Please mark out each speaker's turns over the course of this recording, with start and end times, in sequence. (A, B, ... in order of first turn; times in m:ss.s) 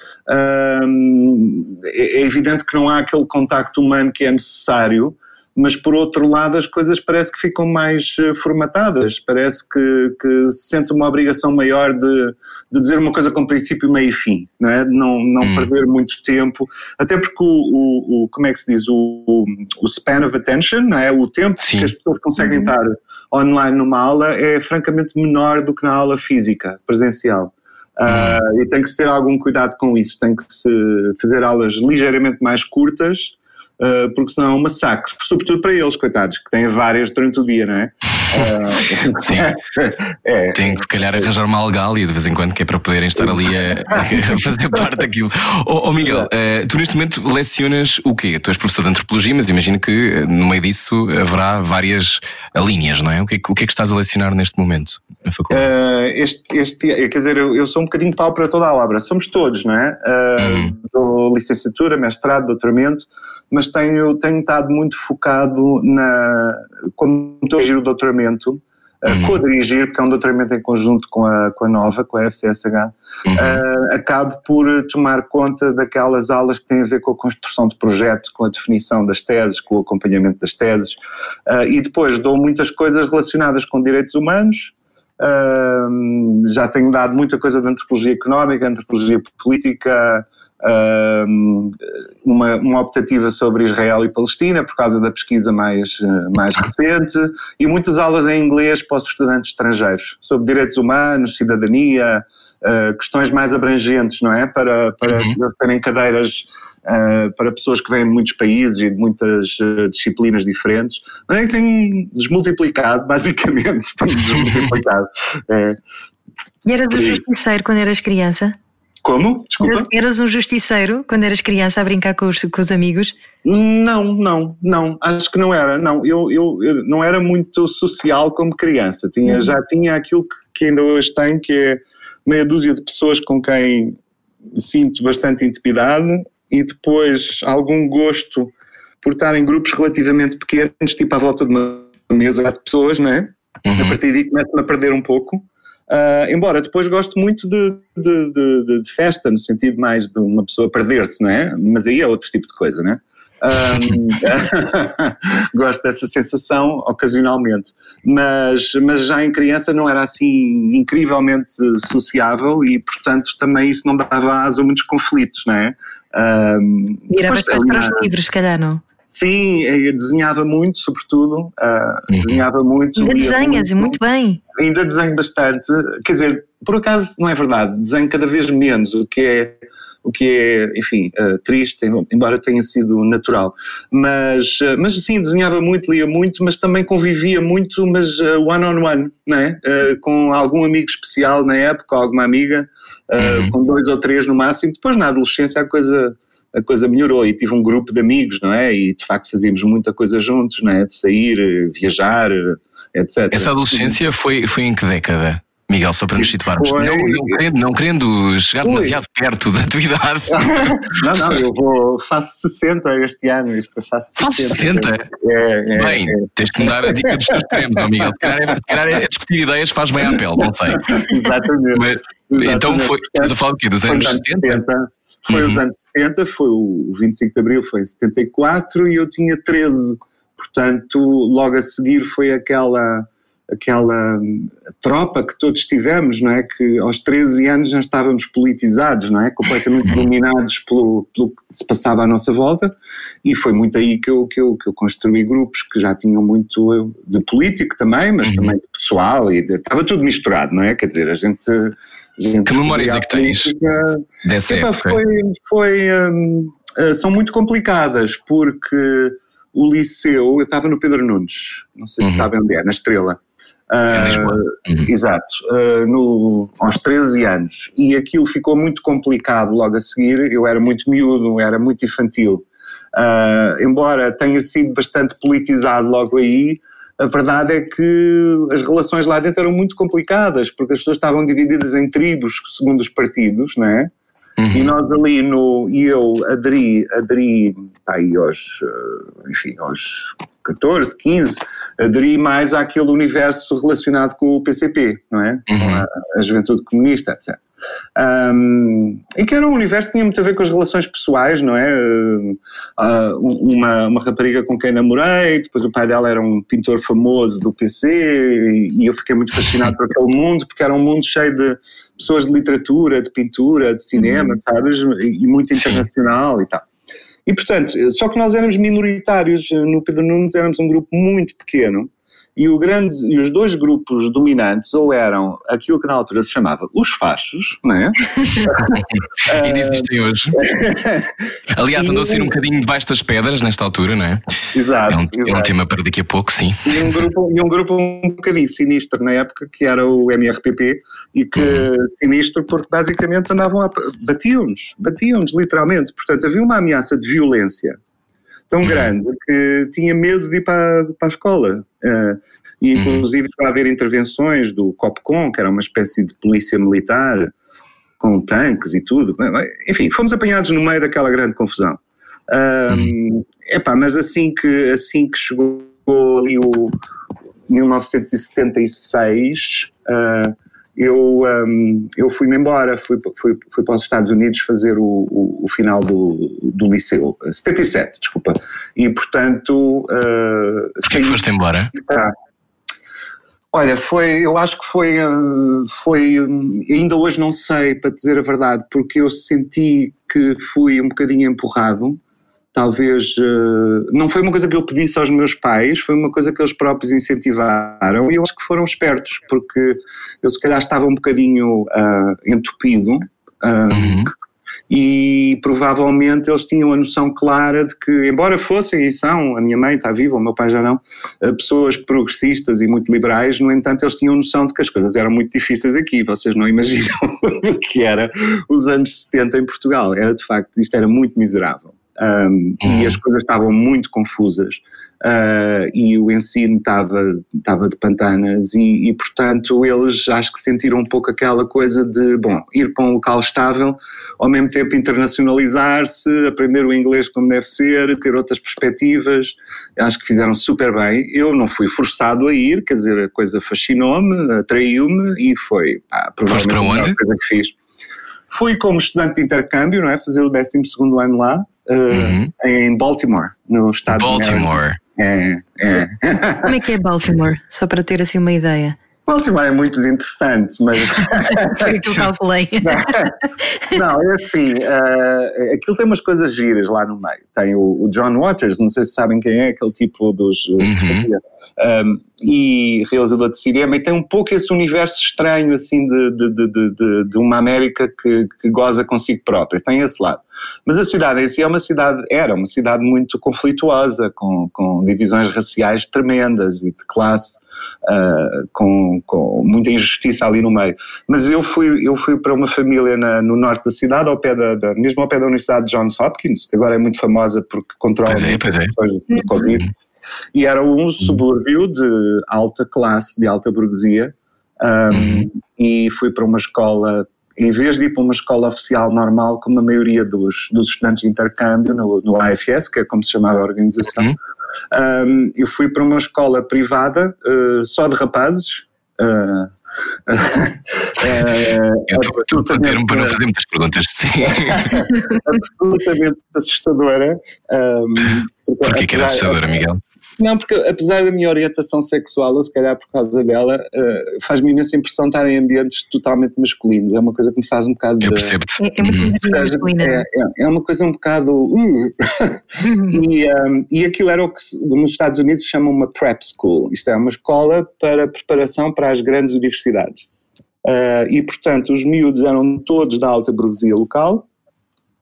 0:00.3-0:41.3 A
0:15.4-0:15.7 B
0:21.6-0:21.9 B
0:28.1-0:28.4 B
0:39.2-0:39.6 B
0:40.6-0:55.7 B
0:43.2-0:44.4 A
0:46.0-0:46.3 A
0:55.5-1:55.8 A
1:00.4-1:00.7 B
1:09.1-1:09.4 B
1:13.3-1:13.6 B
1:45.1-1:45.4 B
1:54.4-1:54.7 B
1:56.6-1:58.6 C
1:56.9-1:57.2 A
1:59.0-1:59.9 A
1:59.6-2:03.2 C
2:03.4-2:14.0 A
2:14.5-2:18.5 A
2:19.0-2:48.1 A
2:23.7-2:24.0 B
2:33.7-2:34.0 B
2:47.1-2:48.8 C
2:49.1-2:54.0 A
2:52.1-2:52.4 B
2:53.0-2:54.4 C
2:54.6-3:24.0 A
3:13.2-3:13.5 B
3:23.3-3:30.7 B
3:26.2-3:27.4 A
3:28.6-3:29.0 A
3:30.3-3:39.0 A
3:34.2-3:35.1 B
3:35.8-3:41.1 B
3:40.1-4:02.7 A
3:41.7-3:44.6 B
3:45.3-3:45.6 B
4:03.2-4:43.9 A
4:08.2-4:08.5 B
4:12.5-4:13.5 B
4:14.2-4:15.0 B
4:22.0-4:22.3 B
4:23.9-4:24.9 B
4:44.4-4:44.7 B
4:44.5-4:57.4 A
4:55.5-4:55.9 B
4:58.0-5:16.6 A
5:14.0-5:14.3 C
5:15.6-5:15.9 B
5:17.3-5:31.1 A
5:28.7-5:30.4 B
5:31.5-5:34.2 B
5:31.8-5:32.3 A
5:34.5-5:35.5 A
5:34.9-5:37.1 B
5:36.6-5:47.8 A
5:41.4-5:41.7 B
5:48.5-5:57.3 A
5:48.6-5:48.9 B
5:52.8-5:53.0 B
5:58.0-6:06.8 A
6:07.5-6:21.2 A
6:20.9-6:21.7 B
6:21.7-6:22.1 A
6:23.5-6:32.0 A
6:32.5-6:44.1 A
6:43.7-6:44.1 B
6:44.7-7:27.5 A
7:02.6-7:03.0 B
7:26.3-7:27.0 B
7:28.3-7:36.5 A
7:31.9-7:32.3 B
7:33.9-7:34.8 B
7:36.4-7:38.8 C
7:39.1-7:41.8 A
7:41.2-7:43.6 C
7:42.6-7:43.1 A
7:43.7-8:19.7 A
7:50.6-7:51.1 B
8:18.1-8:18.7 B
8:20.3-8:34.1 A
8:24.9-8:25.3 B
8:34.7-8:39.5 A
8:40.1-8:43.2 A
8:41.1-8:41.4 B
8:41.9-8:44.9 B
8:44.2-8:49.6 A
8:48.6-8:49.8 B
8:50.2-8:58.4 A
8:58.0-8:59.1 B
8:58.6-9:00.0 C
8:59.2-9:10.1 A
9:02.6-9:03.0 C
9:10.6-9:14.3 A